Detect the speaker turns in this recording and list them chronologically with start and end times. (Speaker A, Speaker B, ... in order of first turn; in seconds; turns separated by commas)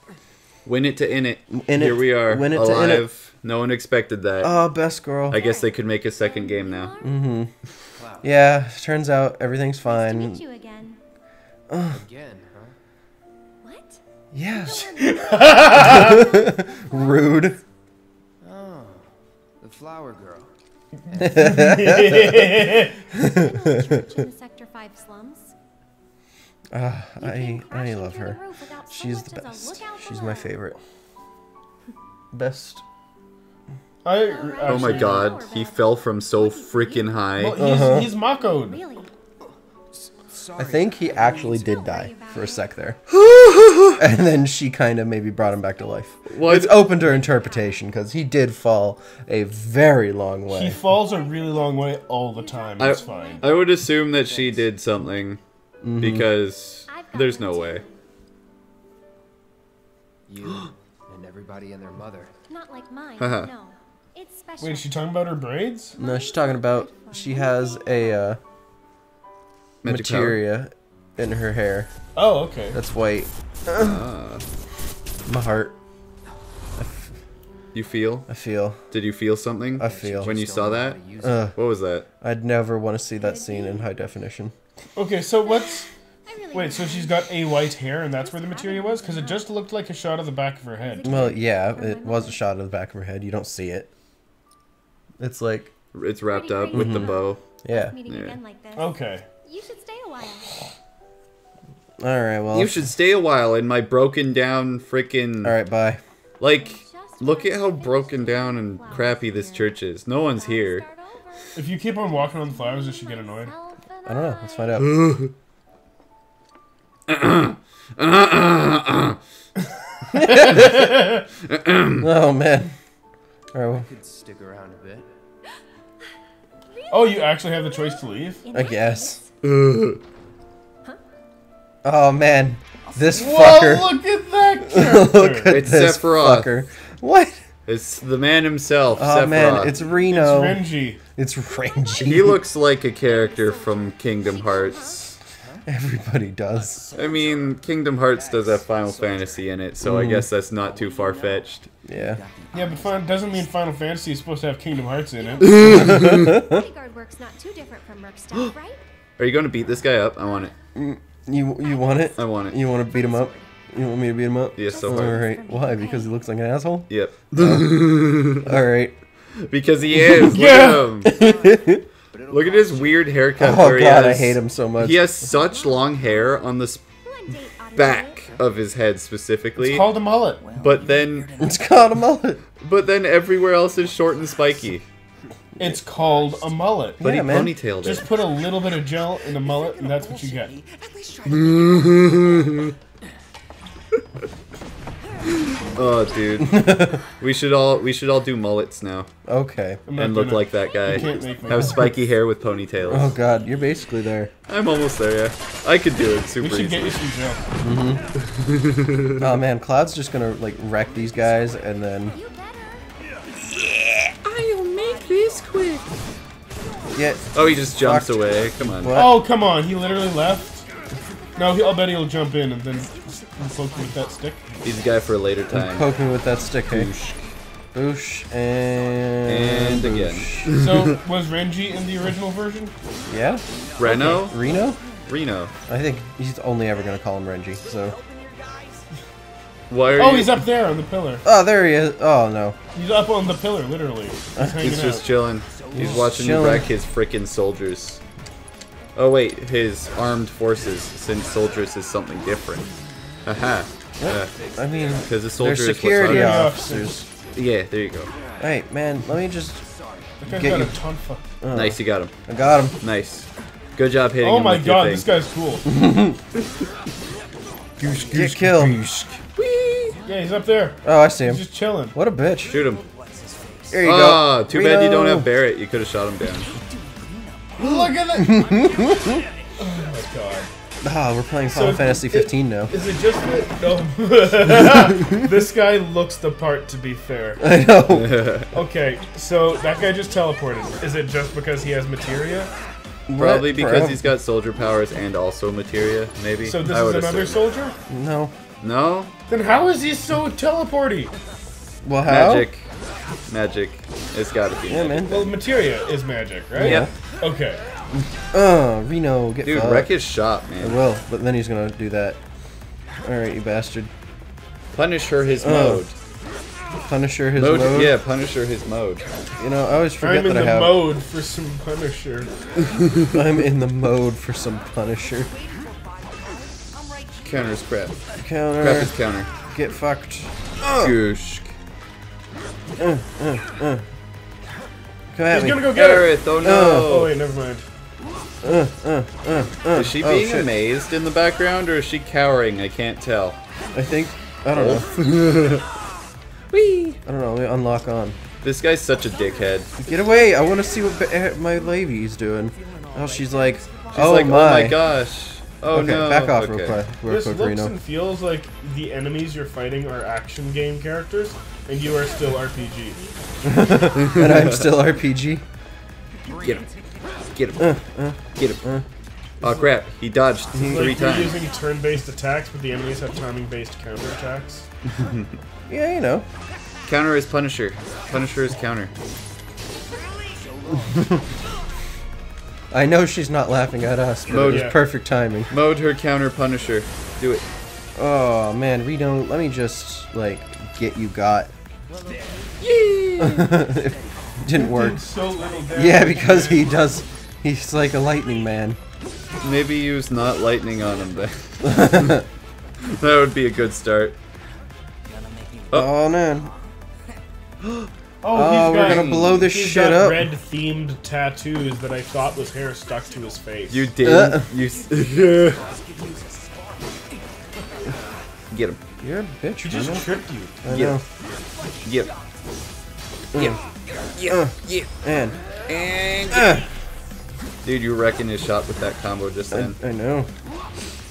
Speaker A: 0.7-4.5, Speaker B: 1.5-3.1, Speaker B: 4.4-5.4, Speaker A: 5.3-6.9, Speaker C: 5.3-7.3, Speaker B: 7.0-7.5, Speaker D: 8.0-8.6, Speaker B: 8.2-10.4, Speaker C: 9.8-11.0, Speaker B: 11.7-12.0, Speaker D: 11.9-12.8, Speaker C: 13.6-17.5, Speaker B: 14.3-15.2, Speaker E: 15.0-16.2, Speaker B: 15.7-17.6, Speaker D: 18.4-20.5, Speaker D: 21.1-21.9, Speaker E: 21.2-23.0, Speaker B: 21.2-22.6, Speaker C: 23.1-25.5, Speaker B: 23.2-23.9, Speaker B: 26.7-30.8, Speaker C: 27.2-30.5, Speaker B: 32.3-32.8, Speaker E: 34.0-35.4, Speaker C: 34.1-37.3, Speaker A: 34.6-37.6, Speaker E: 37.4-38.8, Speaker B: 37.6-38.1, Speaker C: 38.0-39.1, Speaker D: 39.9-41.6, Speaker B: 40.6-43.0, Speaker C: 41.1-42.7, Speaker A: 43.1-44.0, Speaker B: 44.0-50.8, Speaker A: 46.3-46.9, Speaker C: 47.0-47.8, Speaker E: 50.5-53.5, Speaker C: 51.0-53.7, Speaker A: 52.8-55.4, Speaker D: 54.2-54.7, Speaker B: 55.8-56.3, Speaker A: 56.0-57.8, Speaker C: 56.9-58.0, Speaker D: 60.3-62.3, Speaker C: 62.5-65.0, Speaker A: 63.2-63.5, Speaker E: 64.6-66.0, Speaker B: 66.0-68.4, Speaker C: 66.0-68.3, Speaker A: 69.8-70.4, Speaker B: 69.8-71.9, Speaker E: 72.2-72.8, Speaker B: 72.7-74.0, Speaker A: 73.8-74.4, Speaker B: 75.3-75.7, Speaker B: 76.8-77.2, Speaker A: 77.7-78.3, Speaker B: 78.3-78.8, Speaker A: 78.9-81.0, Speaker D: 79.8-81.5, Speaker B: 79.8-80.3, Speaker B: 81.2-81.6, Speaker A: 81.5-82.1, Speaker B: 82.2-84.5, Speaker C: 83.2-83.9, Speaker E: 85.0-85.9, Speaker C: 85.4-89.5, Speaker E: 86.5-91.3, Speaker C: 90.8-92.4, Speaker B: 91.0-93.9, Speaker B: 95.2-95.7, Speaker A: 95.9-97.4, Speaker C: 96.3-100.5, Speaker B: 96.7-98.0, Speaker A: 98.1-98.4, Speaker E: 98.8-99.2, Speaker B: 102.0-102.9, Speaker A: 102.5-105.6, Speaker B: 105.4-106.0, Speaker A: 106.4-110.9, Speaker C: 106.4-114.8, Speaker E: 111.5-113.5, Speaker B: 114.1-114.9, Speaker A: 114.8-115.3, Speaker A: 117.1-119.2, Speaker E: 120.1-121.2, Speaker B: 120.1-120.8, Speaker A: 121.4-122.1, Speaker B: 122.0-122.7, Speaker B: 123.5-123.9, Speaker D: 123.7-125.1, Speaker C: 126.7-129.3, Speaker E: 126.9-128.4, Speaker B: 128.5-129.2, Speaker A: 129.4-130.0, Speaker B: 131.8-134.0, Speaker D: 132.8-133.1, Speaker E: 133.1-135.6, Speaker B: 134.7-137.4, Speaker A: 135.5-136.5, Speaker A: 137.7-139.8, Speaker B: 139.0-142.4, Speaker D: 139.5-140.0, Speaker E: 140.0-141.0, Speaker A: 142.0-145.2, Speaker C: 143.0-145.2, Speaker D: 145.3-145.7, Speaker B: 145.7-146.9, Speaker D: 146.5-149.7, Speaker A: 146.9-151.7, Speaker B: 149.8-150.3, Speaker D: 150.5-153.6, Speaker B: 151.8-152.2, Speaker E: 152.5-155.9, Speaker C: 155.2-158.8, Speaker A: 155.4-156.4, Speaker B: 155.6-156.7, Speaker A: 159.2-160.5, Speaker B: 160.8-167.8, Speaker A: 162.2-162.6, Speaker D: 162.8-163.5, Speaker A: 164.6-165.3, Speaker C: 164.7-166.2, Speaker A: 166.9-168.6, Speaker B: 168.3-169.0, Speaker A: 169.4-171.2, Speaker B: 170.0-170.3, Speaker E: 170.2-170.9, Speaker D: 170.9-173.3, Speaker B: 171.0-171.8, Speaker A: 172.3-176.8, Speaker B: 173.4-175.2, Speaker C: 175.3-176.2, Speaker D: 175.4-176.3, Speaker C: 177.0-178.3, Speaker A: 177.7-179.9, Speaker E: 179.6-180.4, Speaker D: 180.4-182.1, Speaker A: 180.6-181.3, Speaker B: 181.4-182.4, Speaker A: 182.6-184.8, Speaker D: 183.9-184.7, Speaker E: 185.6-187.0, Speaker D: 186.2-186.5, Speaker B: 187.0-187.6, Speaker A: 187.0-188.3, Speaker E: 187.8-190.6, Speaker D: 189.2-192.8, Speaker A: 191.3-192.7, Speaker D: 195.2-196.3, Speaker A: 195.3-199.1, Speaker B: 196.4-197.0, Speaker B: 199.3-199.8, Speaker E: 199.9-201.9, Speaker A: 199.9-203.2, Speaker B: 202.9-204.3, Speaker A: 204.5-207.0, Speaker E: 206.4-207.4, Speaker B: 207.6-208.0, Speaker A: 208.3-209.3, Speaker B: 209.2-212.2, Speaker D: 210.8-211.6, Speaker C: 212.1-212.9, Speaker A: 213.4-215.8, Speaker D: 214.8-215.8, Speaker B: 216.9-219.3, Speaker A: 217.3-219.1, Speaker E: 218.9-220.7, Speaker E: 221.4-224.4, Speaker D: 223.0-224.6, Speaker A: 224.6-225.9, Speaker B: 225.5-226.9, Speaker A: 226.7-227.3, Speaker B: 227.7-230.5, Speaker A: 229.3-231.0, Speaker E: 230.5-232.7, Speaker B: 233.1-234.8, Speaker A: 233.8-234.4, Speaker E: 233.8-234.2, Speaker A: 235.1-235.5, Speaker B: 235.7-238.0, Speaker D: 237.7-238.8, Speaker A: 239.7-240.4, Speaker E: 239.9-241.2, Speaker B: 241.2-242.6, Speaker E: 242.7-245.1, Speaker A: 244.6-248.0, Speaker D: 245.5-245.9, Speaker B: 245.7-246.7, Speaker A: 248.9-252.7, Speaker A: 253.2-254.4, Speaker B: 254.0-257.1, Speaker A: 255.0-256.5, Speaker E: 256.0-257.0, Speaker A: 257.3-258.1, Speaker D: 258.2-258.4, Speaker B: 258.4-259.6, Speaker D: 259.6-260.2, Speaker E: 260.2-261.3, Speaker B: 260.3-260.8, Speaker B: 261.4-262.8, Speaker A: 261.5-262.1, Speaker A: 262.8-265.1, Speaker E: 264.2-265.7, Speaker B: 265.7-266.2, Speaker D: 267.2-268.2, Speaker A: 267.8-270.0, Speaker B: 268.1-268.8, Speaker D: 269.9-270.6, Speaker E: 270.1-272.0, Speaker B: 270.8-272.6, Speaker A: 272.4-272.8, Speaker D: 272.5-273.9, Speaker B: 273.7-275.3, Speaker A: 273.8-276.5, Speaker D: 276.3-277.9, Speaker E: 277.6-278.5, Speaker B: 278.1-279.2, Speaker D: 278.6-279.1, Speaker E: 279.6-280.5, Speaker B: 280.8-282.7, Speaker E: 281.5-287.4, Speaker B: 284.6-285.1, Speaker B: 287.4-288.2, Speaker A: 287.9-288.5, Speaker E: 288.5-292.5, Speaker B: 293.1-294.0, Speaker A: 293.2-297.4, Speaker E: 296.4-297.8, Speaker B: 297.9-298.3, Speaker A: 298.6-299.1, Speaker E: 299.3-301.1, Speaker B: 301.8-302.5, Speaker A: 302.1-302.7, Speaker A: 303.3-305.1, Speaker B: 304.7-305.3, Speaker E: 305.0-307.6, Speaker B: 306.6-306.9, Speaker A: 306.6-306.9, Speaker B: 308.3-309.9, Speaker A: 309.4-310.8, Speaker B: 310.6-312.2, Speaker B: 313.0-313.9, Speaker A: 314.8-316.0, Speaker B: 315.4-315.9, Speaker B: 316.9-318.0, Speaker A: 317.4-319.1, Speaker B: 319.4-320.9, Speaker E: 320.0-322.3, Speaker A: 322.7-323.1, Speaker B: 323.1-325.3, Speaker D: 325.3-327.6, Speaker A: 327.2-328.0, Speaker B: 328.2-330.9, Speaker A: 328.6-329.3, Speaker A: 330.8-331.5, Speaker B: 332.8-333.9, Speaker B: 335.1-335.8, Speaker E: 335.3-337.7, Speaker A: 335.7-337.2, Speaker B: 336.4-336.9, Speaker B: 338.4-340.5, Speaker A: 339.7-343.4, Speaker B: 343.7-344.9, Speaker A: 344.5-345.7, Speaker A: 346.5-347.0, Speaker B: 347.1-348.2, Speaker A: 348.4-349.9, Speaker B: 349.9-354.8, Speaker D: 350.1-350.8, Speaker D: 352.5-354.1, Speaker A: 353.9-356.8, Speaker B: 355.7-357.8, Speaker E: 357.1-363.0, Speaker D: 362.0-363.7, Speaker B: 363.4-365.4, Speaker A: 363.8-364.8, Speaker D: 366.2-367.5, Speaker A: 366.4-366.7, Speaker A: 367.3-367.7, Speaker B: 367.6-368.9, Speaker A: 368.4-368.6, Speaker E: 369.4-369.6, Speaker A: 369.4-371.4, Speaker B: 370.5-370.9, Speaker E: 370.5-374.7, Speaker A: 374.9-375.4, Speaker B: 375.7-376.3, Speaker A: 376.9-378.9, Speaker D: 380.1-381.3, Speaker B: 380.9-381.2, Speaker B: 382.7-385.5, Speaker A: 384.3-384.7, Speaker E: 384.3-384.8, Speaker A: 385.5-387.4, Speaker B: 388.0-391.5, Speaker D: 391.9-392.9, Speaker A: 392.6-393.6, Speaker B: 393.2-395.0, Speaker D: 393.5-394.1, Speaker E: 394.5-396.8, Speaker B: 395.7-398.8, Speaker A: 399.4-402.2, Speaker B: 401.6-402.2, Speaker A: 402.8-404.2, Speaker D: 405.1-405.8, Speaker B: 405.7-406.5, Speaker D: 406.4-406.7, Speaker E: 408.2-413.9, Speaker B: 408.3-410.3, Speaker A: 408.6-409.5, Speaker A: 413.7-415.6, Speaker B: 414.0-414.5, Speaker D: 414.9-418.0, Speaker A: 418.5-418.8, Speaker B: 419.0-420.1, Speaker E: 419.6-420.6, Speaker B: 420.6-421.0, Speaker A: 420.7-421.0, Speaker A: 421.8-422.1, Speaker B: 423.3-423.6, Speaker A: 424.1-424.9, Speaker B: 424.3-425.4, Speaker A: 425.7-426.6, Speaker B: 426.3-426.7, Speaker A: 427.6-429.8, Speaker B: 429.5-430.3